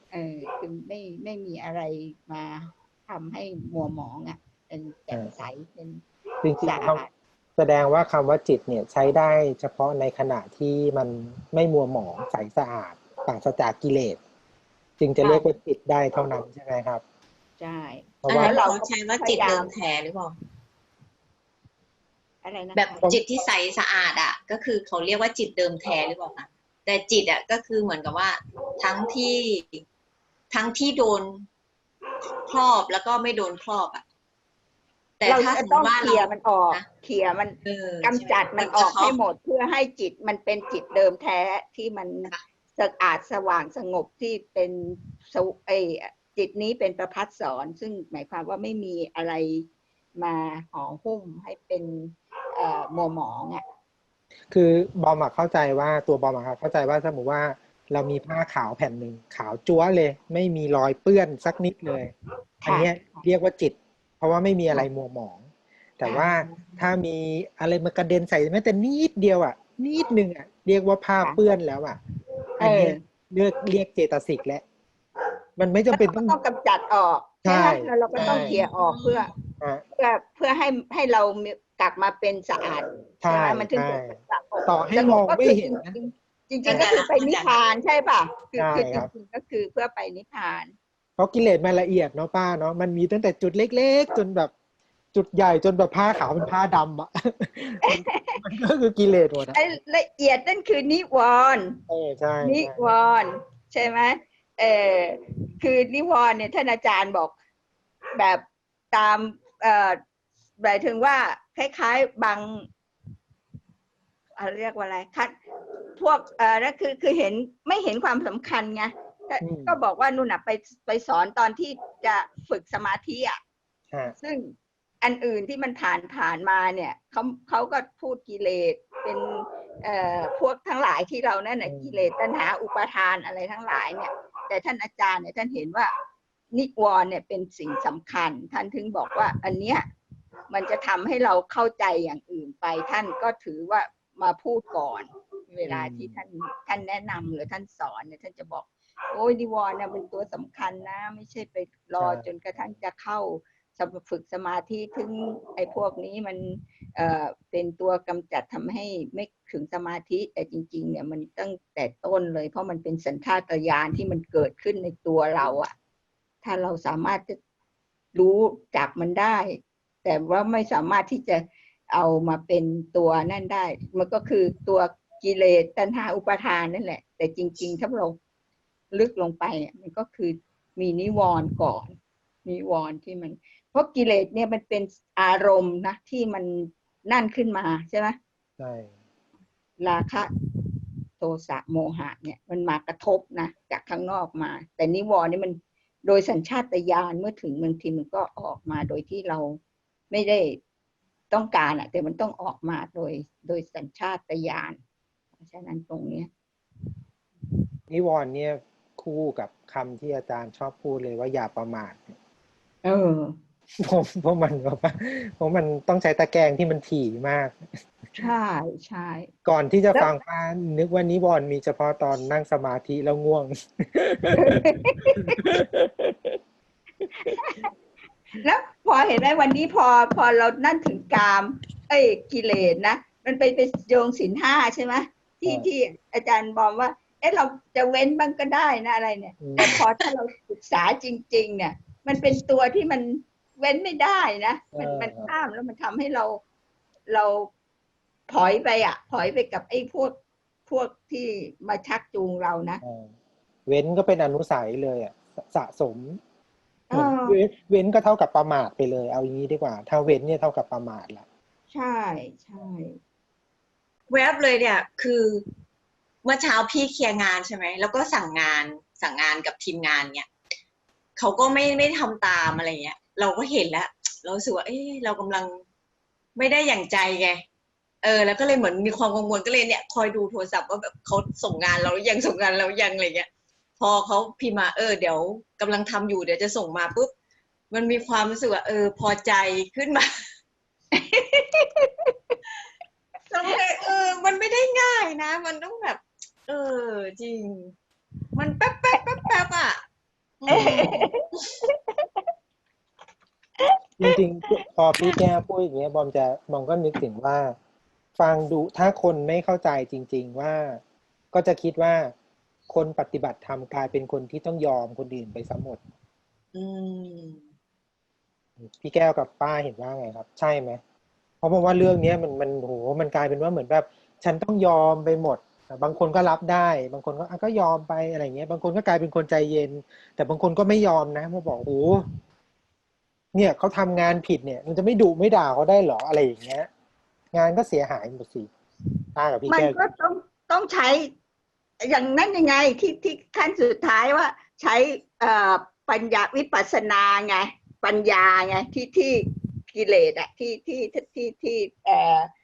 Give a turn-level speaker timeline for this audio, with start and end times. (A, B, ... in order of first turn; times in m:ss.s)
0:00.1-0:06.0 A
0:06.4-0:07.0 B
0:06.6-0:07.1 A
0:07.6-0:14.2 B
0:15.0-0:17.0 B
0:15.2-0:15.5 A
0:17.6-0:19.7 A
0:18.2-0:18.6 B
0:18.3-0:20.3 C
0:22.4-0:23.1 A
0:22.8-0:29.8 C
0:30.5-0:31.4 C
0:32.5-0:34.0 C
0:35.2-0:36.8 C
0:35.2-0:49.6 A
0:37.6-0:39.1 C
0:50.2-0:53.6 A
0:54.5-1:02.1 B
1:02.6-1:03.2 A
1:02.6-1:05.4 B
1:06.0-1:12.0 B
1:06.0-1:06.5 A
1:12.6-1:13.0 A
1:12.6-1:14.6 B
1:15.6-1:16.4 B
1:15.9-1:19.3 A
1:17.4-1:18.6 B
1:18.1-1:19.2 C
1:20.0-1:30.7 A
1:23.2-1:26.0 B
1:26.6-1:27.5 C
1:28.6-1:29.1 B
1:31.2-1:34.5 B
1:35.1-1:39.6 B
1:37.8-1:38.4 A
1:39.5-1:41.8 A
1:41.9-1:42.8 B
1:42.4-1:47.3 A
1:48.2-1:50.0 A
1:50.6-1:52.7 A
1:54.4-1:55.3 A
1:56.0-2:03.4 A
1:59.4-1:59.8 B
2:04.2-2:15.9 A
2:11.6-2:12.0 B
2:16.5-2:19.8 A
2:20.5-2:45.7 A
2:25.6-2:26.2 B
2:46.4-2:47.4 A
2:48.1-2:58.2 A
2:58.9-3:08.2 A
3:08.6-3:08.9 B
3:09.8-3:10.3 A
3:11.2-3:19.6 A
3:20.1-3:20.6 A
3:21.3-3:24.8 A
3:25.4-3:26.3 A
3:27.9-3:32.2 B
3:32.8-3:33.4 A
3:33.8-3:37.7 B
3:38.2-3:39.3 A
3:39.4-3:44.7 B
3:44.3-3:45.6 A
3:45.3-3:45.8 B
3:47.2-3:47.7 A
3:48.4-4:06.4 A
3:59.4-3:59.8 B
4:04.7-4:05.3 B
4:07.1-4:07.5 A
4:08.3-4:10.1 A
4:10.7-4:12.8 A
4:12.8-4:13.1 B
4:13.7-4:16.2 B
4:16.9-4:17.4 A
4:16.9-4:21.2 B
4:21.7-4:23.0 A
4:24.1-4:25.4 C
4:26.2-4:30.3 C
4:31.2-4:35.6 C
4:36.4-4:37.4 C
4:38.0-4:43.3 C
4:43.8-4:47.1 C
4:47.7-4:50.1 C
4:50.9-4:52.3 A
4:53.3-4:57.7 C
4:58.3-4:59.8 C
5:00.4-5:01.0 C
5:00.5-5:01.1 B
5:00.5-5:02.2 A
5:04.0-5:07.5 B
5:08.2-5:10.8 B
5:11.3-5:12.1 B
5:12.7-5:15.8 B
5:16.5-5:17.4 C
5:18.6-5:20.8 B
5:21.4-5:32.0 B
5:33.3-5:36.7 B
5:37.3-5:38.5 B
5:39.1-5:39.8 B
5:39.5-5:41.1 A
5:41.8-5:52.3 A